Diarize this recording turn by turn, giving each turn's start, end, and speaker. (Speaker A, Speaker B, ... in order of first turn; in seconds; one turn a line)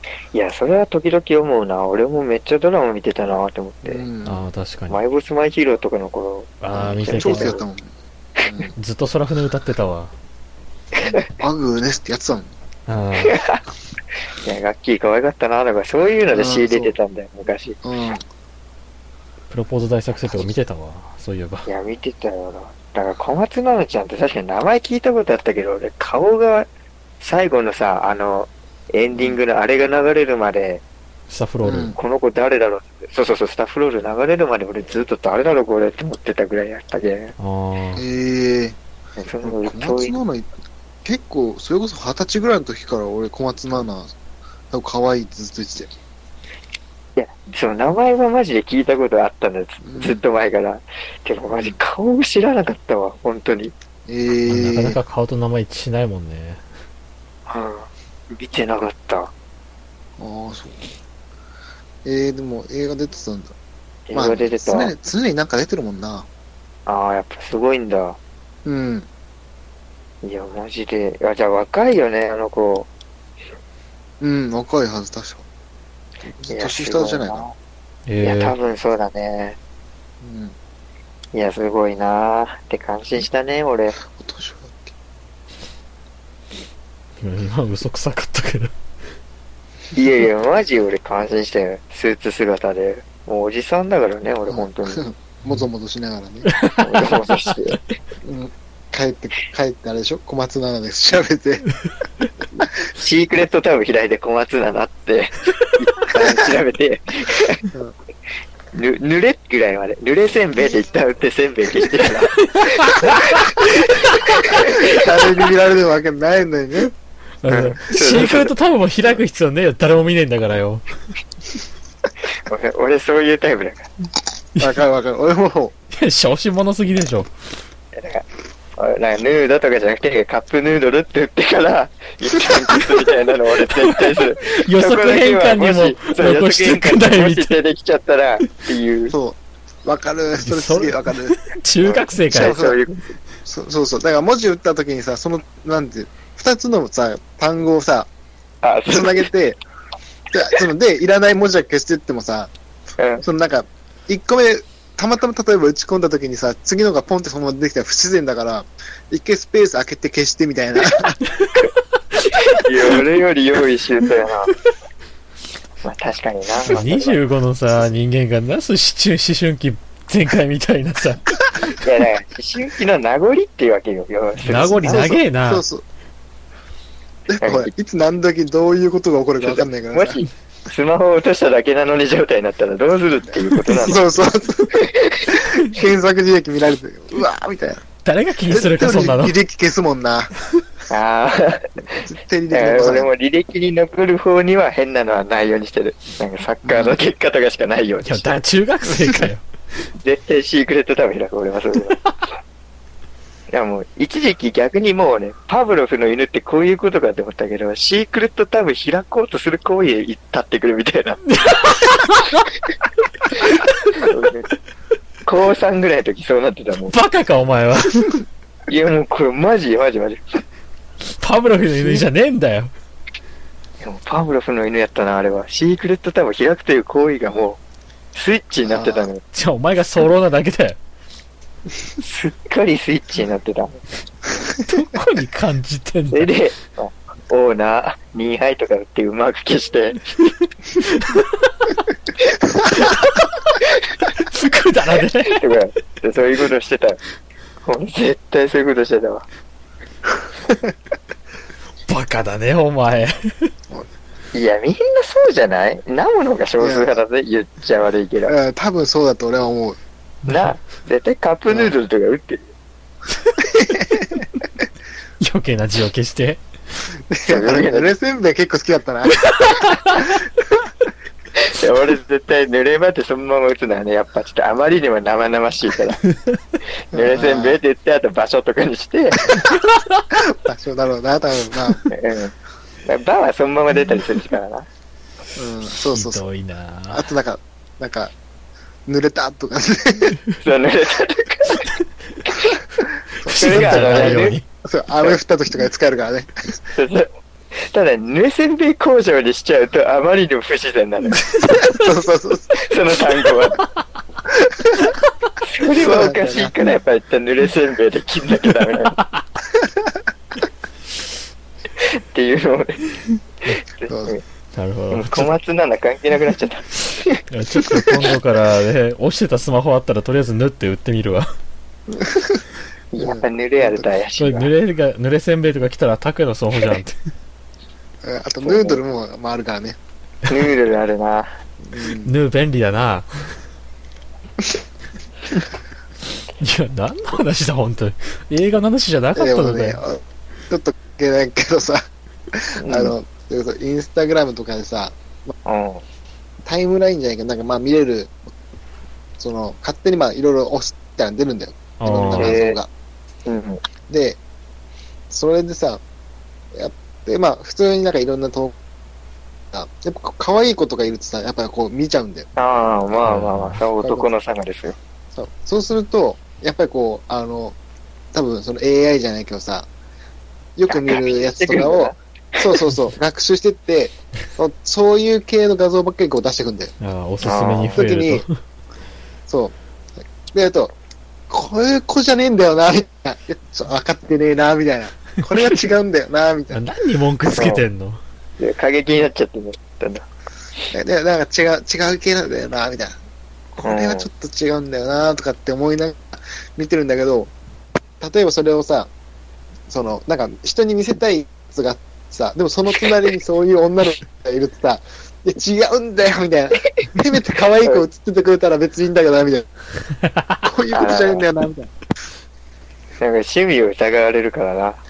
Speaker A: 0.3-4.0
Speaker B: 3.8-4.5
Speaker C: 4.2-5.0
Speaker A: 4.9-7.6
Speaker C: 6.6-7.6
Speaker B: 6.7-8.7
Speaker C: 8.8-10.1
Speaker B: 11.0-12.5
Speaker C: 12.9-13.4
Speaker A: 13.2-13.6
Speaker A: 14.3-17.8
Speaker B: 16.3-16.9
Speaker B: 17.8-18.2
Speaker C: 19.5-21.7
Speaker A: 21.6-26.7
Speaker A: 27.2-30.8
Speaker C: 31.3-31.9
Speaker B: 31.6-32.0
Speaker A: 31.9-37.3
Speaker C: 37.4-38.0
Speaker B: 37.9-38.8
Speaker A: 39.2-40.2
Speaker B: 39.4-40.5
Speaker B: 41.0-44.1
Speaker B: 44.7-45.9
Speaker A: 47.1-53.7
Speaker B: 49.8-50.2
Speaker B: 51.5-51.8
Speaker B: 54.1-55.0
Speaker C: 54.5-56.6
Speaker A: 57.5-59.3
Speaker B: 60.2-60.8
Speaker B: 62.0-63.5
Speaker A: 64.1-64.9
Speaker B: 64.1-66.3
Speaker A: 66.8-68.2
Speaker B: 68.6-69.1
Speaker A: 70.2-72.9
Speaker B: 74.2-75.4
Speaker B: 76.2-77.4
Speaker A: 76.5-77.5
Speaker C: 78.1-78.5
Speaker A: 78.2-79.6
Speaker B: 80.2-80.5
Speaker A: 81.3-84.0
Speaker B: 84.1-84.9
Speaker C: 87.2-88.7
Speaker A: 89.9-95.1
Speaker B: 94.5-96.5
Speaker C: 96.5-97.5
Speaker A: 96.8-97.8
Speaker B: 98.2-101.7
Speaker A: 102.9-107.7
Speaker A: 108.7-115.4
Speaker C: 112.5-113.2
Speaker B: 114.8-116.9
Speaker C: 117.4-120.8
Speaker A: 117.5-118.5
Speaker A: 122.3-123.9
Speaker B: 124.6-125.7
Speaker C: 125.9-127.3
Speaker A: 127.9-128.2
Speaker A: 128.8-139.1
Speaker C: 133.8-137.5
Speaker B: 139.1-141.4
Speaker C: 140.4-142.6
Speaker A: 141.9-143.1
Speaker B: 142.3-142.8
Speaker B: 143.4-148.1
Speaker A: 148.6-149.3
Speaker B: 148.9-149.6
Speaker B: 150.3-152.5
Speaker A: 153.0-153.2
Speaker B: 153.2-161.2
Speaker C: 162.2-162.6
Speaker A: 162.3-164.5
Speaker A: 165.8-167.2
Speaker C: 166.7-171.8
Speaker A: 171.8-175.1
Speaker C: 174.4-175.6
Speaker B: 174.5-175.8
Speaker B: 177.3-180.2
Speaker A: 177.4-177.7
Speaker A: 179.4-184.0
Speaker B: 183.7-187.8
Speaker A: 184.7-185.4
Speaker C: 188.0-189.3
Speaker B: 188.5-190.3
Speaker A: 190.9-198.3
Speaker B: 192.0-193.1
Speaker B: 196.6-197.0
Speaker C: 198.0-199.4
Speaker A: 200.0-202.0
Speaker A: 203.5-211.3
Speaker C: 211.3-212.4
Speaker A: 213.3-214.5
Speaker A: 215.2-217.0
Speaker C: 216.9-218.2
Speaker A: 218.7-220.4
Speaker C: 221.2-222.7
Speaker A: 223.8-227.6
Speaker A: 228.1-229.2
Speaker B: 228.6-229.1
Speaker C: 229.3-230.8
Speaker A: 232.0-233.8
Speaker C: 234.6-236.3
Speaker A: 236.1-240.0
Speaker C: 240.8-241.7
Speaker C: 242.8-243.2
Speaker C: 244.2-245.4
Speaker A: 245.3-247.0
Speaker A: 247.6-249.2
Speaker B: 250.4-250.7
Speaker C: 251.9-253.5
Speaker A: 254.3-258.3
Speaker B: 256.6-257.0
Speaker B: 258.3-259.8
Speaker A: 260.3-262.5
Speaker B: 261.5-261.7
Speaker B: 263.4-264.3
Speaker C: 265.2-266.4
Speaker B: 267.1-270.7
Speaker A: 267.2-267.9
Speaker C: 269.4-270.0
Speaker A: 271.4-276.0
Speaker C: 276.1-276.4
Speaker A: 276.9-279.3
Speaker B: 276.9-277.6
Speaker B: 280.1-281.9
Speaker A: 281.9-282.3
Speaker A: 282.8-284.7
Speaker B: 285.4-286.2
Speaker C: 285.9-287.1
Speaker B: 286.9-288.1
Speaker B: 288.9-290.2
Speaker A: 290.4-291.7
Speaker A: 292.3-292.6
Speaker B: 293.2-296.6
Speaker C: 293.2-294.4
Speaker A: 293.4-294.4
Speaker A: 296.8-301.2
Speaker C: 301.4-301.8
Speaker B: 301.7-302.6
Speaker A: 302.5-303.6
Speaker B: 304.3-304.9
Speaker A: 305.4-309.0
Speaker B: 305.7-306.6
Speaker B: 309.6-309.9
Speaker A: 311.8-312.8
Speaker A: 313.5-314.2
Speaker B: 313.9-314.1
Speaker C: 314.5-315.3
Speaker A: 314.9-317.2
Speaker C: 317.3-321.3
Speaker B: 321.9-322.4
Speaker A: 322.9-324.5
Speaker B: 323.0-323.8
Speaker C: 324.2-327.0
Speaker B: 328.0-329.8
Speaker A: 328.4-328.8
Speaker A: 330.3-331.3
Speaker B: 331.6-332.1
Speaker C: 332.0-333.3
Speaker C: 336.4-339.8
Speaker B: 339.1-345.3
Speaker A: 342.6-342.9
Speaker A: 345.4-345.8
Speaker B: 346.4-348.2
Speaker B: 349.2-352.7
Speaker C: 351.8-352.4
Speaker A: 352.1-352.6
Speaker A: 353.2-353.6
Speaker B: 353.9-354.2
Speaker B: 355.1-355.8
Speaker B: 356.5-358.6
Speaker B: 359.5-362.3
Speaker A: 362.4-364.8
Speaker C: 363.0-363.6
Speaker B: 363.8-364.1
Speaker B: 365.1-367.6
Speaker B: 368.1-369.7
Speaker B: 370.6-376.7
Speaker A: 370.7-372.6
Speaker C: 376.8-378.3
Speaker A: 377.2-377.8
Speaker B: 377.7-378.2
Speaker B: 379.3-379.6
Speaker B: 380.3-380.7
Speaker B: 381.3-386.6
Speaker C: 386.5-388.0
Speaker A: 387.4-387.6
Speaker A: 388.4-390.1
Speaker B: 390.7-393.0
Speaker B: 393.5-397.3
Speaker A: 393.6-394.1
Speaker B: 398.0-398.9
Speaker B: 399.7-409.5
Speaker B: 410.4-411.7
Speaker A: 410.7-411.2
Speaker A: 413.0-414.8